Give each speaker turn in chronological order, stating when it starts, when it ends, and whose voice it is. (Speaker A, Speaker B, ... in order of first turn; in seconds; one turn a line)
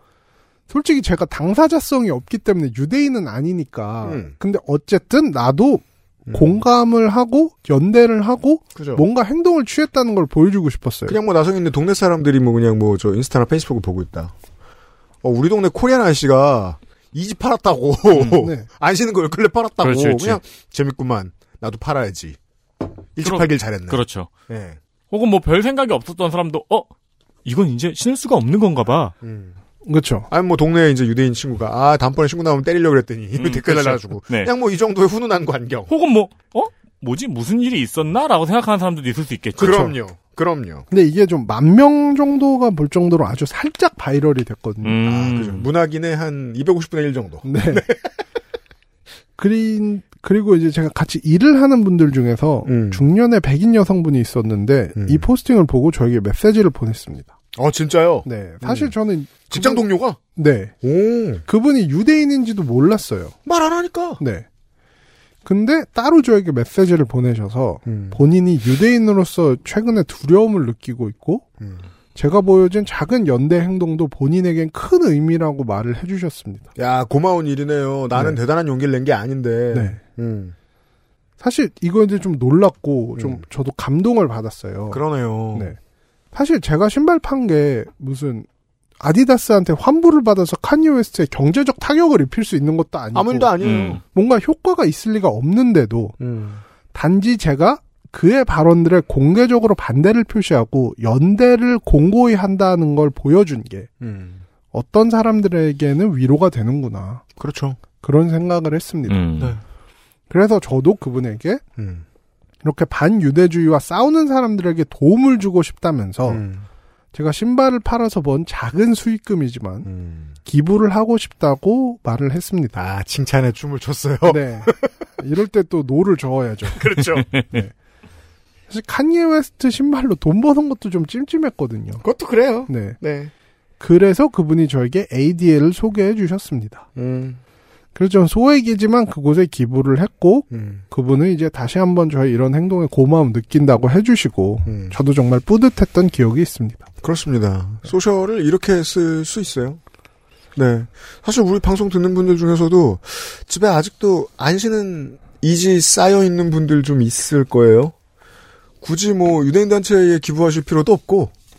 Speaker A: 0.7-11.2
Speaker B: 4.0-4.3
Speaker B: 6.3-6.6
Speaker B: 8.7-9.0
Speaker B: 11.1-14.3
Speaker B: 15.2-22.4
Speaker A: 18.3-18.7
Speaker C: 19.8-20.4
Speaker B: 23.1-24.8
Speaker C: 23.2-24.3
Speaker C: 25.1-26.9
Speaker C: 27.4-29.1
Speaker B: 29.2-29.6
Speaker A: 29.8-30.3
Speaker B: 30.3-35.9
Speaker C: 33.4-34.5
Speaker C: 35.9-39.9
Speaker B: 39.5-40.9
Speaker A: 40.9-45.0
Speaker C: 44.8-45.7
Speaker B: 45.0-48.2
Speaker A: 47.4-47.9
Speaker A: 49.4-57.3
Speaker B: 52.6-53.0
Speaker B: 55.0-55.3
Speaker B: 57.5-58.9
Speaker A: 58.2-60.7
Speaker B: 59.5-60.2
Speaker B: 60.8-61.4
Speaker A: 61.4-63.3
Speaker B: 63.4-64.2
Speaker A: 64.2-64.5
Speaker A: 65.4-71.4
Speaker B: 67.8-68.2
Speaker B: 71.6-71.9
Speaker A: 72.1-76.7
Speaker B: 76.8-80.5
Speaker A: 78.1-78.4
Speaker A: 79.7-80.0
Speaker A: 81.4-85.8
Speaker B: 83.2-83.4
Speaker B: 84.9-85.7
Speaker A: 86.3-88.5
Speaker A: 89.0-93.5
Speaker B: 93.1-94.0
Speaker C: 93.6-94.0
Speaker A: 94.0-96.2
Speaker B: 96.2-96.6
Speaker A: 96.9-103.9
Speaker B: 104.0-104.4
Speaker A: 104.7-107.2
Speaker B: 107.4-107.8
Speaker A: 108.0-109.2
Speaker C: 109.1-109.6
Speaker A: 110.3-111.6
Speaker B: 111.8-112.0
Speaker A: 112.6-116.4
Speaker B: 116.3-116.7
Speaker A: 117.1-119.9
Speaker B: 119.8-120.3
Speaker A: 120.4-122.8
Speaker B: 122.7-124.9
Speaker A: 124.2-126.8
Speaker B: 126.7-127.3
Speaker A: 128.7-132.0
Speaker B: 132.0-133.3
Speaker A: 132.7-133.0
Speaker A: 133.8-136.8
Speaker B: 136.9-137.4
Speaker A: 137.9-146.8
Speaker B: 140.5-140.8
Speaker B: 144.7-145.0
Speaker B: 147.0-149.8
Speaker B: 150.5-157.9
Speaker B: 158.8-161.3